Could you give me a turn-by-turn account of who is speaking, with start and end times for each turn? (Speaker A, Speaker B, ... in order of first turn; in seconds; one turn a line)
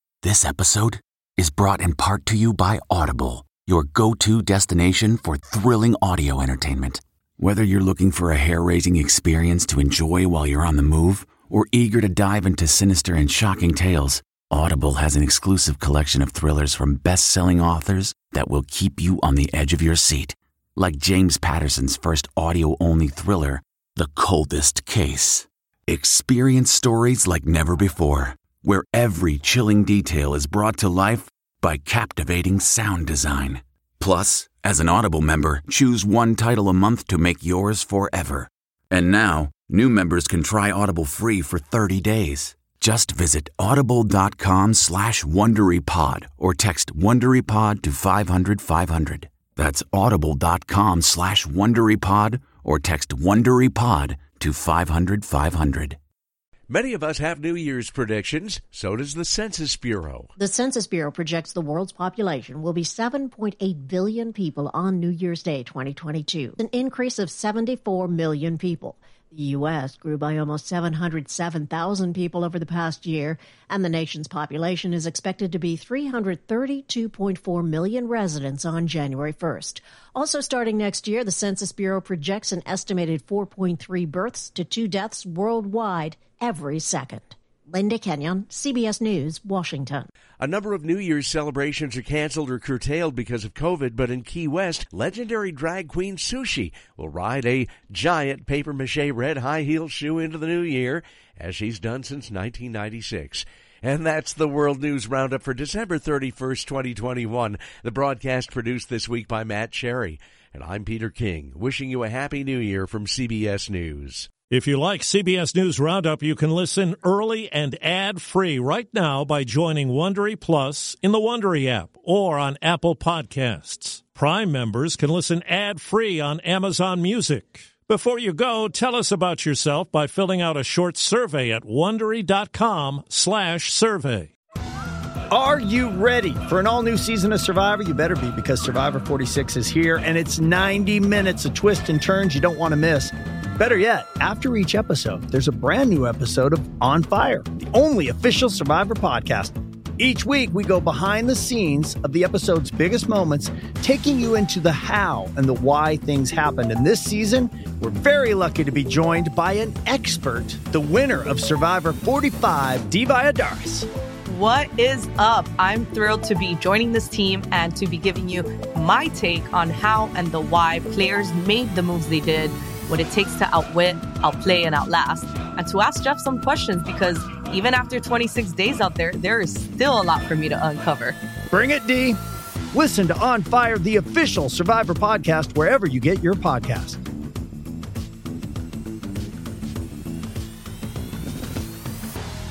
Speaker A: 0.2-56.0
Speaker B: 56.7-60.3
Speaker C: 60.4-90.1
Speaker B: 90.4-114.3
Speaker D: 114.5-134.3
Speaker E: 135.3-163.9
Speaker F: 164.4-167.2
Speaker F: 167.8-168.2
Speaker F: 168.8-172.5
Speaker F: 173.3-177.0
Speaker F: 177.7-181.1
Speaker E: 181.5-182.2
Speaker E: 182.7-187.0